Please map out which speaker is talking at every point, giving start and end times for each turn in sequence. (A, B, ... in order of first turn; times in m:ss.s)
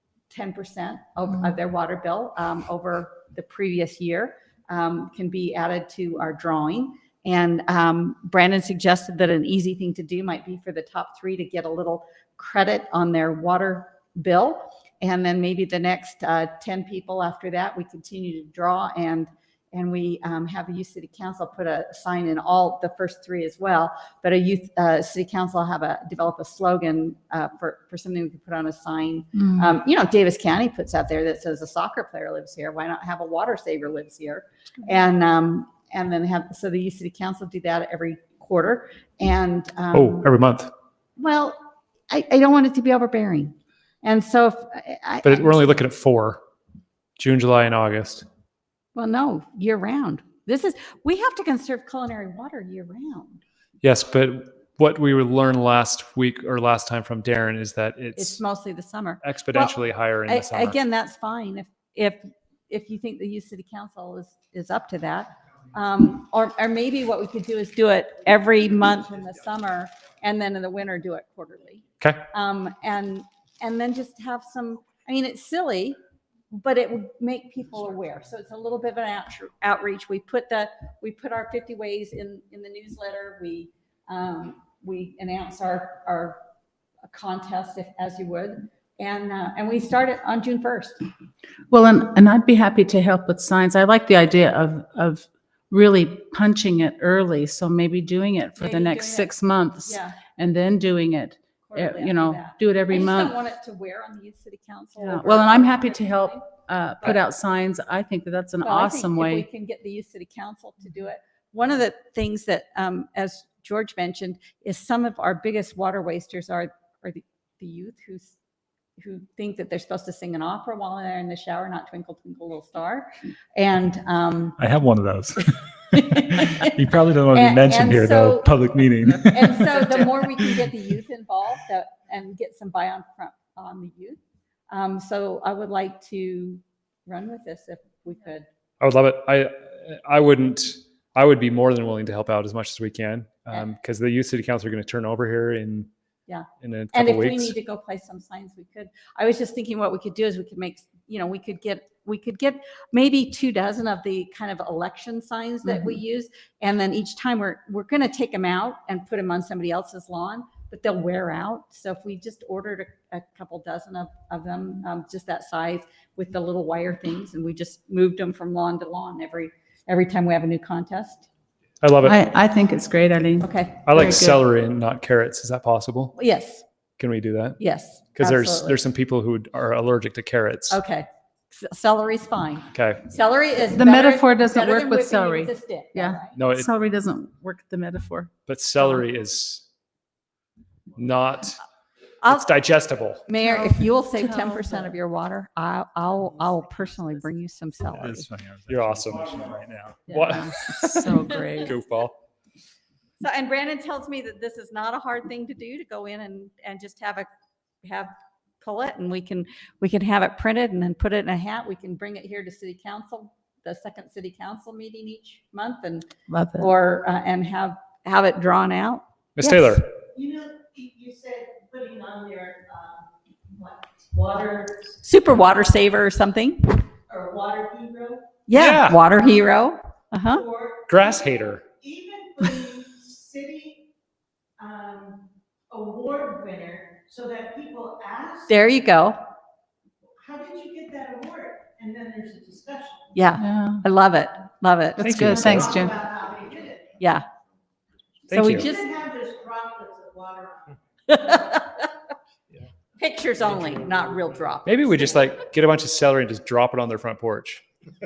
0:00.3-0:40.3 A
0:39.9-0:40.7 B
0:41.2-0:41.6 A
0:42.1-0:45.8 A
0:45.2-0:46.4 B
0:47.2-0:48.2 B
0:48.9-0:53.4 A
0:53.8-0:58.4 B
0:58.2-1:16.0 A
0:59.2-1:00.8 B
1:16.5-1:26.4 A
1:27.1-1:31.0 A
1:31.7-1:43.4 C
1:38.6-1:40.2 A
1:41.6-1:46.4 A
1:45.0-1:49.5 C
1:48.6-1:58.4 A
1:59.0-2:04.6 A
2:04.6-2:10.0 D
2:05.9-2:06.8 A
2:07.3-2:14.2 A
2:14.7-2:18.5 A
2:18.8-2:25.9 B
2:26.3-2:51.3 A
2:26.6-2:27.5 B
2:51.8-2:52.2 B
2:52.0-2:54.4 C
2:53.4-2:53.9 A
2:53.8-2:56.2 B
2:56.1-2:56.6 A
2:57.0-2:57.6 B
2:57.6-2:58.8 A
2:58.2-3:00.8 B
3:00.7-3:06.4 A
3:02.7-3:03.0 B
3:03.7-3:08.3 C
3:06.3-3:06.7 B
3:08.5-3:09.6 B
3:11.0-3:11.6 B
3:12.2-3:12.5 A
3:12.2-3:13.3 B
3:13.2-3:18.3 A
3:13.4-3:14.9 C
3:18.0-3:20.1 D
3:18.7-3:19.4 B
3:20.1-3:20.4 A
3:20.1-3:22.1 B
3:20.2-3:21.7 C
3:21.0-3:21.7 A
3:23.2-3:27.3 A
3:27.8-3:39.8 A
3:36.3-3:36.7 C
3:39.4-3:39.9 B
3:40.1-3:44.8 E
3:45.0-3:46.8 A
3:47.1-3:48.2 E
3:48.5-3:50.4 A
3:48.5-3:49.0 B
3:50.4-3:50.8 E
3:50.9-3:51.6 B
3:51.8-3:53.8 E
3:54.6-3:55.2 E
3:55.7-3:58.4 E
3:58.5-3:59.2 A
4:00.2-4:03.1 E
4:03.1-4:05.7 A
4:03.4-4:03.8 C
4:05.0-4:06.0 C
4:05.0-4:05.8 B
4:05.4-4:07.0 E
4:07.0-4:07.2 A
4:08.3-4:08.7 B
4:08.3-4:08.7 C
4:08.4-4:08.9 A
4:08.6-4:10.8 E
4:11.1-4:11.8 A
4:11.3-4:11.6 E
4:13.0-4:15.2 A
4:14.6-4:17.6 B